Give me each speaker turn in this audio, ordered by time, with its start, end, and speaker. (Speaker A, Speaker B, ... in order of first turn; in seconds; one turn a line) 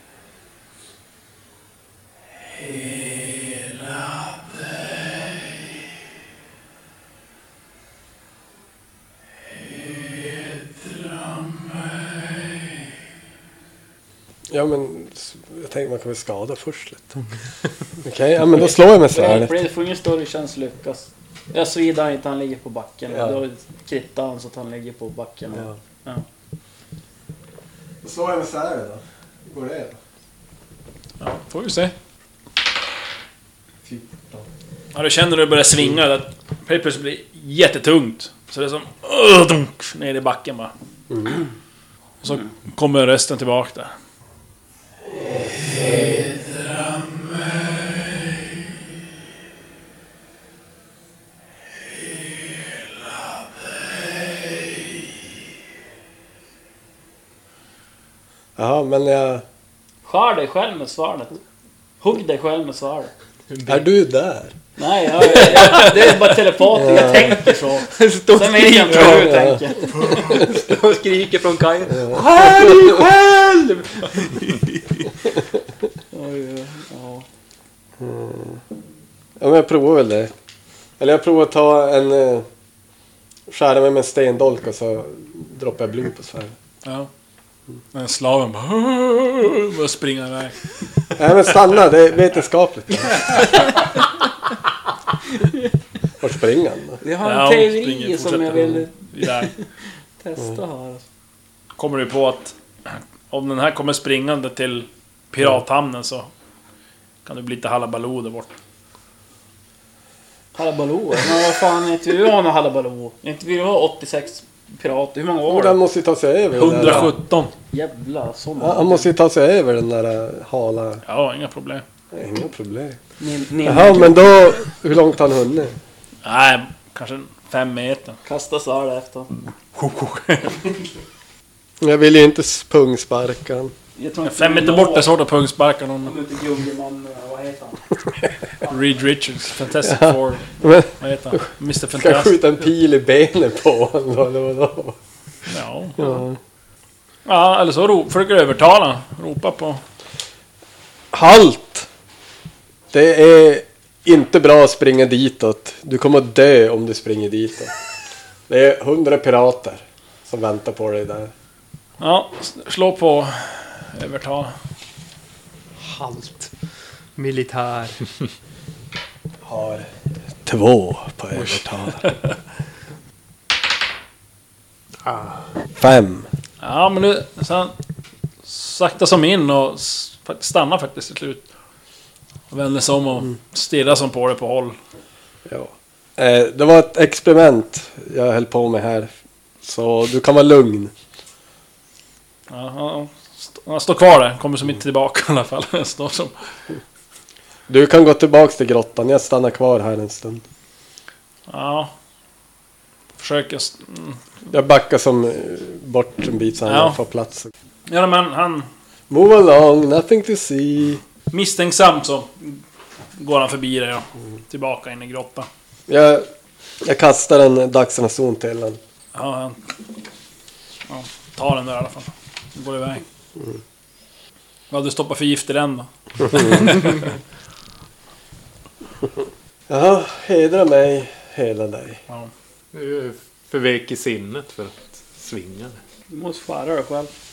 Speaker A: 2.5-5.4
Speaker A: 9.5-12.8
Speaker B: 14.5-17.2
Speaker B: 18.0-19.5
Speaker C: 18.5-26.2
Speaker B: 23.1-23.4
Speaker B: 28.0-30.0
Speaker A: 31.2-31.9
Speaker B: 33.8-34.5
Speaker A: 34.9-40.7
Speaker B: 41.1-41.4
Speaker A: 42.2-43.9
Speaker B: 45.3-46.2
Speaker A: 45.5-47.8
Speaker B: 58.6-59.4
Speaker C: 60.0-61.4
Speaker C: 62.0-63.1
Speaker D: 63.5-63.9
Speaker B: 63.7-64.5
Speaker C: 64.8-70.3
Speaker D: 65.5-65.9
Speaker B: 66.7-67.4
Speaker D: 67.8-69.4
Speaker B: 68.9-69.7
Speaker D: 69.9-74.6
Speaker B: 72.0-72.7
Speaker C: 76.1-77.2
Speaker B: 78.0-78.6
Speaker B: 79.4-80.3
Speaker B: 81.0-82.5
Speaker B: 83.5-86.5
Speaker A: 86.8-87.1
Speaker A: 87.9-90.6
Speaker B: 91.2-93.5
Speaker B: 96.2-97.0
Speaker C: 97.0-99.7
Speaker A: 97.2-99.5
Speaker C: 100.2-101.0
Speaker A: 101.8-106.3
Speaker A: 107.3-108.5
Speaker C: 110.5-115.8
Speaker B: 115.5-117.2
Speaker A: 116.5-117.5
Speaker C: 117.7-119.1
Speaker B: 118.6-121.0
Speaker A: 121.0-121.8
Speaker B: 122.1-123.0
Speaker C: 123.2-124.2
Speaker B: 123.6-125.8
Speaker A: 126.2-128.2
Speaker C: 128.2-129.3
Speaker A: 129.8-130.6
Speaker B: 131.8-133.7
Speaker C: 134.0-135.1
Speaker A: 134.2-136.2
Speaker C: 136.0-137.8
Speaker A: 138.7-142.4
Speaker B: 139.8-145.0
Speaker A: 145.5-146.2
Speaker B: 146.0-146.4
Speaker A: 147.3-149.8
Speaker B: 151.1-151.9
Speaker B: 152.9-157.7
Speaker B: 158.5-161.3
Speaker A: 162.0-164.5
Speaker D: 165.8-166.5
Speaker D: 167.2-168.0
Speaker B: 169.4-169.9
Speaker B: 170.4-172.1
Speaker E: 175.1-175.4
Speaker B: 175.8-176.3
Speaker A: 176.6-177.7
Speaker A: 178.4-181.4
Speaker A: 182.5-184.8
Speaker B: 185.5-189.1
Speaker B: 189.6-190.9
Speaker A: 192.5-196.3
Speaker B: 197.7-200.4
Speaker A: 201.5-201.9
Speaker A: 203.2-204.2
Speaker B: 204.5-207.5
Speaker A: 206.7-207.0
Speaker A: 207.9-208.7
Speaker B: 209.1-211.0
Speaker A: 211.3-212.6
Speaker A: 213.2-215.5
Speaker B: 215.9-216.3
Speaker B: 216.8-218.8
Speaker A: 219.1-219.6
Speaker A: 220.9-223.0
Speaker A: 224.7-227.0
Speaker B: 229.7-232.0
Speaker E: 232.7-235.8
Speaker C: 236.1-237.1